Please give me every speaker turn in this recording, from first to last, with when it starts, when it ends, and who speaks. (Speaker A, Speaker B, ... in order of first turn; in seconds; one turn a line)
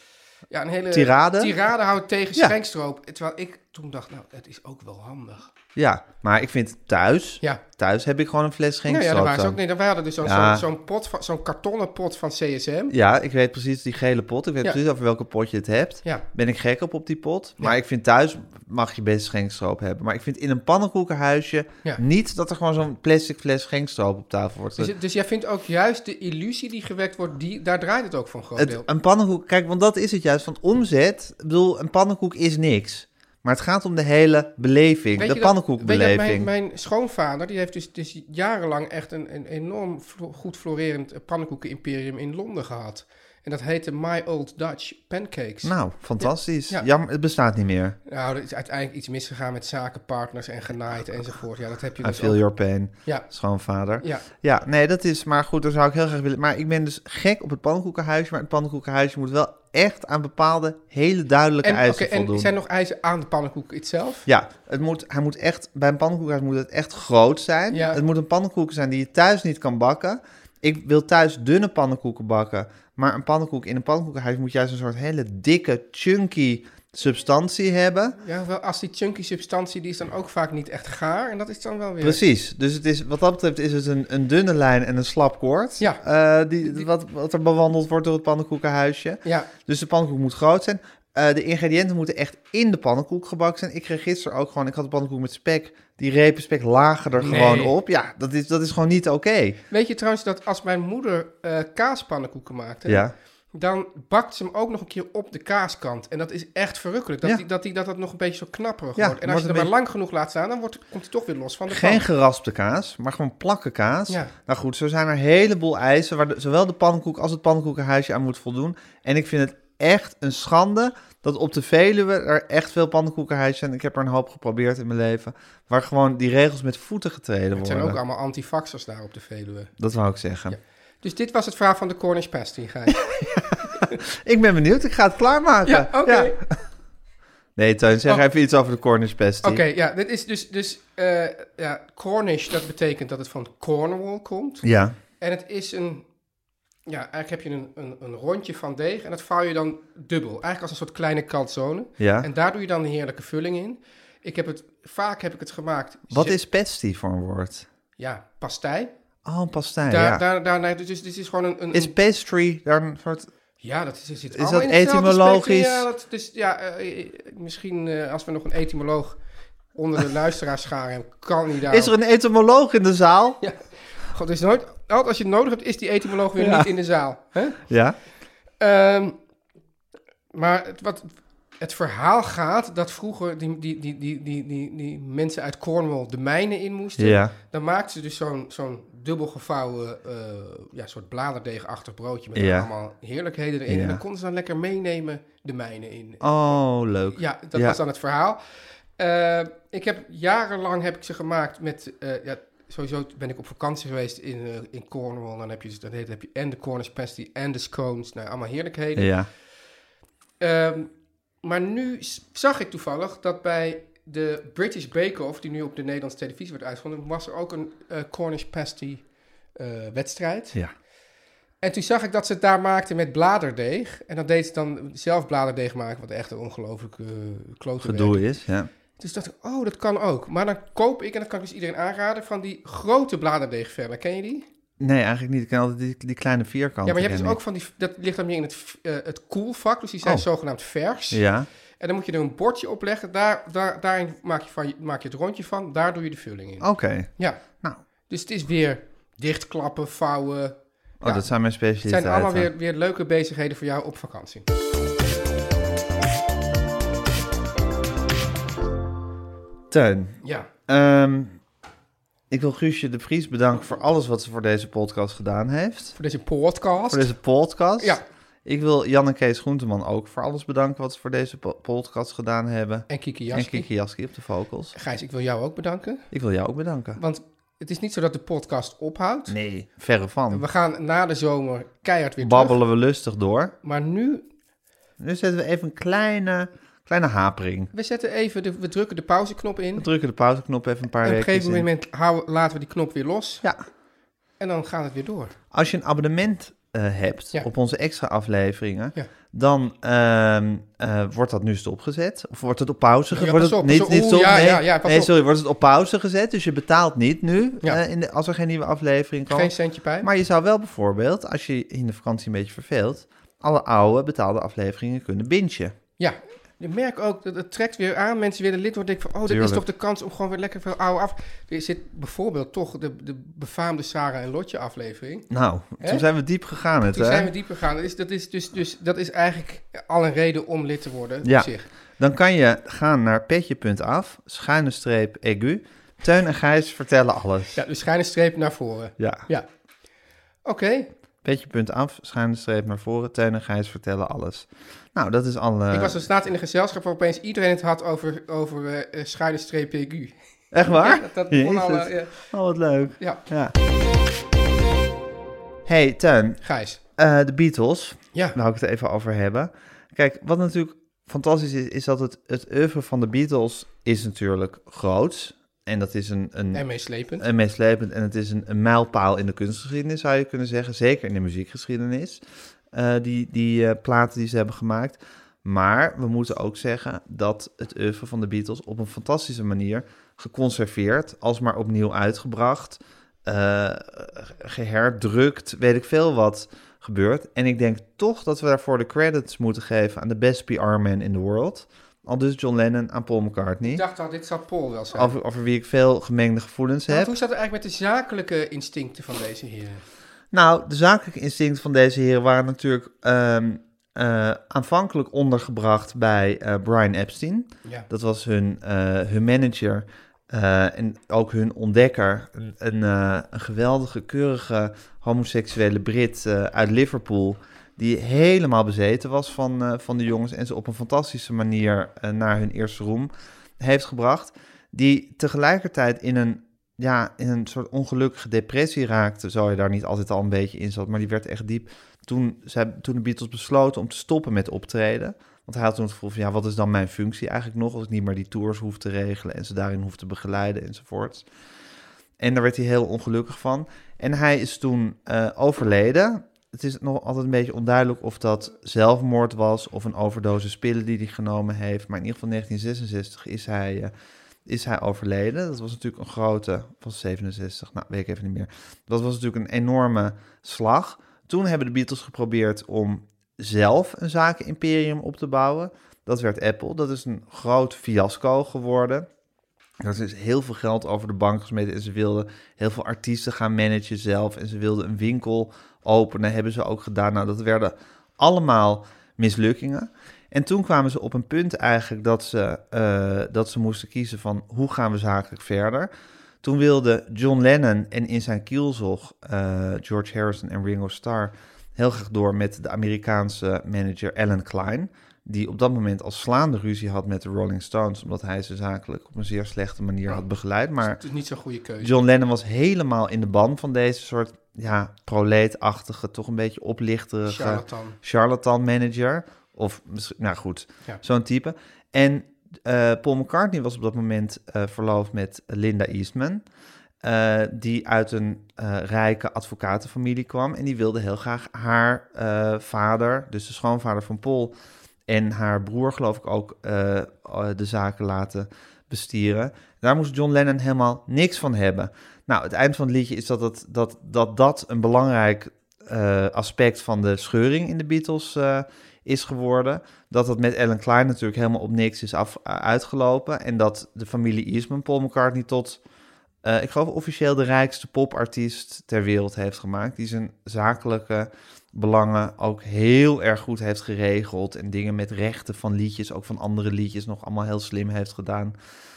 Speaker A: 0.5-5.5
Speaker B: 0.9-1.6
Speaker B: 5.8-9.6
Speaker A: 8.9-12.9
Speaker B: 10.2-10.7
Speaker B: 12.9-24.9
Speaker A: 24.8-28.9
Speaker B: 28.6-36.5
Speaker A: 35.2-46.9
Speaker B: 45.6-48.0
Speaker A: 48.1-52.4
Speaker B: 52.0-62.5
Speaker A: 61.6-64.2
Speaker B: 64.3-78.2
Speaker A: 67.7-68.0
Speaker A: 78.2-82.2
Speaker B: 82.0-99.6
Speaker A: 89.2-89.5
Speaker A: 97.2-97.8
Speaker A: 99.7-112.0
Speaker B: 102.9-103.1
Speaker B: 109.0-109.7
Speaker B: 111.7-128.0
Speaker A: 127.5-129.7
Speaker B: 129.8-130.6
Speaker A: 130.5-134.0
Speaker B: 133.1-136.4
Speaker A: 135.7-136.4
Speaker B: 137.6-139.6
Speaker A: 139.4-144.7
Speaker B: 144.6-145.0
Speaker A: 145.2-146.0
Speaker A: 146.9-156.4
Speaker B: 152.0-152.3
Speaker B: 156.1-157.7
Speaker A: 158.0-158.9
Speaker B: 159.3-160.2
Speaker A: 159.9-161.9
Speaker B: 161.7-163.3
Speaker A: 163.6-169.2
Speaker B: 164.3-165.9
Speaker A: 169.8-171.9
Speaker B: 171.7-173.4
Speaker A: 173.4-177.6
Speaker B: 176.4-176.7
Speaker B: 177.7-178.0
Speaker A: 178.6-179.2
Speaker A: 180.3-196.6
Speaker B: 187.0-187.3
Speaker B: 192.3-192.7
Speaker B: 193.7-194.0
Speaker B: 196.2-197.8
Speaker A: 197.1-198.4
Speaker A: 199.0-209.1
Speaker B: 209.0-209.3
Speaker A: 210.4-210.9
Speaker A: 211.4-219.0
Speaker A: 219.6-220.6
Speaker A: 221.6-228.3
Speaker B: 227.8-228.7
Speaker A: 229.0-234.5
Speaker B: 234.8-237.4
Speaker A: 236.8-241.2
Speaker B: 241.1-241.5
Speaker A: 241.8-247.4
Speaker B: 246.6-247.1
Speaker A: 248.1-251.3
Speaker B: 251.0-252.5
Speaker A: 251.8-254.5
Speaker B: 259.7-261.4
Speaker B: 262.3-266.0
Speaker A: 266.0-267.1
Speaker B: 266.9-274.7
Speaker A: 267.8-268.0
Speaker A: 272.9-273.7
Speaker A: 274.8-276.1
Speaker B: 276.1-277.0
Speaker A: 277.0-279.3
Speaker B: 279.3-280.4
Speaker A: 280.3-282.6
Speaker B: 282.2-283.6
Speaker A: 283.6-284.3
Speaker B: 285.0-287.7
Speaker A: 287.7-289.9
Speaker B: 289.8-291.7
Speaker A: 291.0-293.4
Speaker A: 294.4-295.4
Speaker B: 295.5-315.8
Speaker A: 303.1-305.1
Speaker A: 309.3-310.1
Speaker A: 316.0-325.3
Speaker B: 319.3-319.6
Speaker B: 325.3-327.3
Speaker A: 325.8-326.1
Speaker A: 326.9-331.7
Speaker B: 331.2-337.6
Speaker A: 337.6-339.5
Speaker B: 339.0-339.3
Speaker A: 340.4-340.9
Speaker B: 341.2-346.1
Speaker A: 345.7-352.3
Speaker B: 350.5-353.5
Speaker B: 355.7-356.4
Speaker A: 356.4-356.8
Speaker B: 357.0-366.6
Speaker A: 366.5-367.3
Speaker B: 367.2-372.2
Speaker B: 372.7-393.8
Speaker A: 393.6-395.1
Speaker B: 394.9-397.1
Speaker A: 396.9-399.8
Speaker B: 400.3-441.3
Speaker B: 442.2-453.9
Speaker B: 454.5-469.1
Speaker B: 469.8-485.9
Speaker B: 486.4-501.0
Speaker A: 500.8-502.0
Speaker B: 501.8-516.4
Speaker A: 507.3-508.0
Speaker B: 517.0-524.5
Speaker B: 525.1-545.8
Speaker B: 546.4-558.5